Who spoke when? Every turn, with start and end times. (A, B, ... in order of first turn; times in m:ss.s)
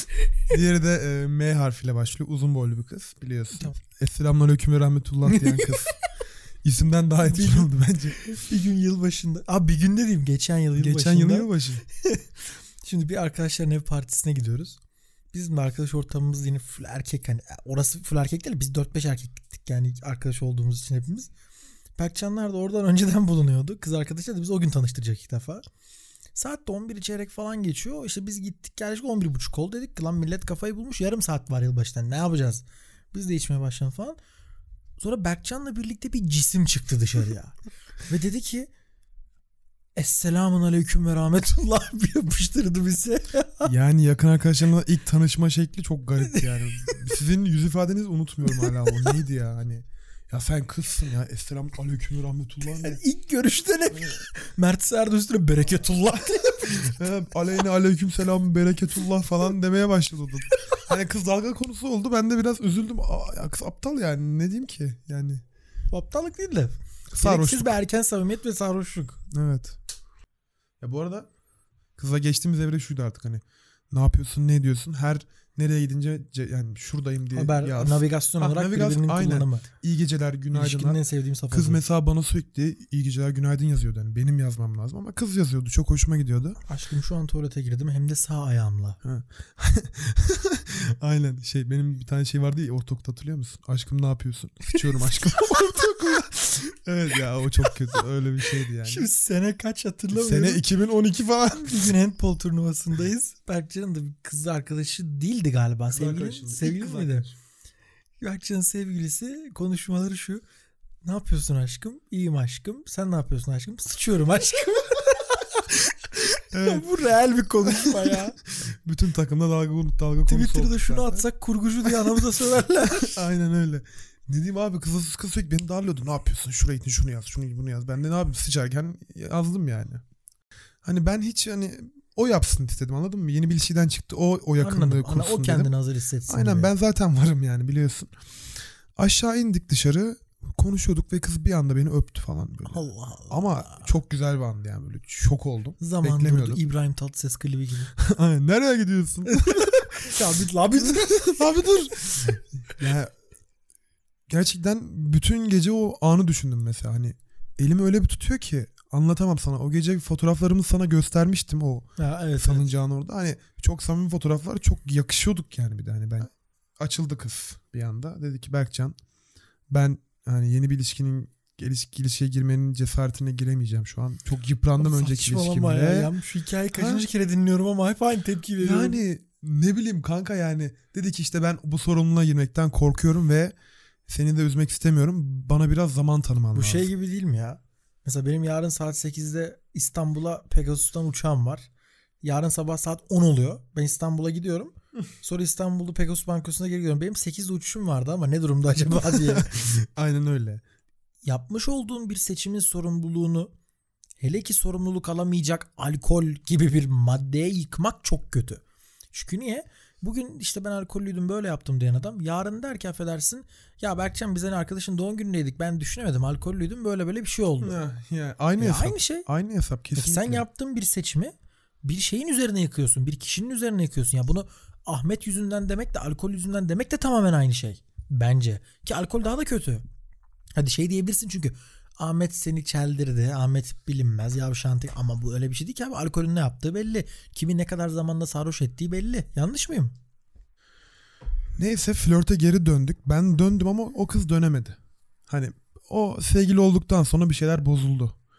0:00.5-0:06.0 A
0:05.3-0:05.6 B
0:06.6-0:08.2 A
0:07.2-0:07.7 B
0:08.3-0:11.5 B
0:10.8-0:11.8 A
0:12.8-0:14.8 B
0:15.3-0:21.3 B
0:22.0-0:25.6 B
0:26.4-0:34.2 B
0:35.0-0:37.6 B
0:38.1-0:38.7 B
0:40.0-0:43.7 B
0:43.6-0:53.0 A
0:46.2-0:46.9 B
0:48.6-0:49.0 B
0:52.8-0:56.9 B
0:56.8-1:05.4 A
1:05.9-1:09.2 B
1:07.1-1:07.8 A
1:09.3-1:09.8 A
1:10.8-1:11.3 A
1:12.0-1:26.6 A
1:17.3-1:19.6 B
1:20.5-1:21.8 B
1:26.7-1:29.0 B
1:29.0-1:39.1 A
1:34.7-1:35.8 B
1:38.8-1:40.6 B
1:40.1-1:41.9 A
1:41.5-1:47.3 B
1:45.9-1:47.3 A
1:48.2-1:50.4 B
1:51.0-1:58.4 B
1:56.5-1:56.9 A
1:57.7-1:58.1 A
1:58.6-2:01.2 A
2:00.3-2:03.1 B
2:03.0-2:10.0 A
2:10.8-2:15.7 A
2:14.6-2:16.7 B
2:16.3-2:18.1 A
2:19.0-2:26.6 A
2:22.7-2:23.8 B
2:25.8-2:27.9 B
2:28.0-2:29.9 A
2:29.4-2:32.2 B
2:30.8-2:33.1 A
2:34.3-2:49.0 A
2:42.0-2:42.7 B
2:49.7-2:56.1 A
2:54.8-2:59.0 B
2:56.8-2:57.0 A
2:58.6-3:03.6 A
3:04.1-3:06.9 A
3:06.5-3:11.7 B
3:12.2-3:19.5 B
3:19.0-3:20.6 A
3:21.2-3:23.5 B
3:24.2-3:28.6 B
3:29.1-3:37.8 B
3:37.6-3:40.4 A
3:38.6-3:39.3 B
3:40.0-3:49.8 B
3:50.6-4:00.0 B
4:01.6-4:08.2 A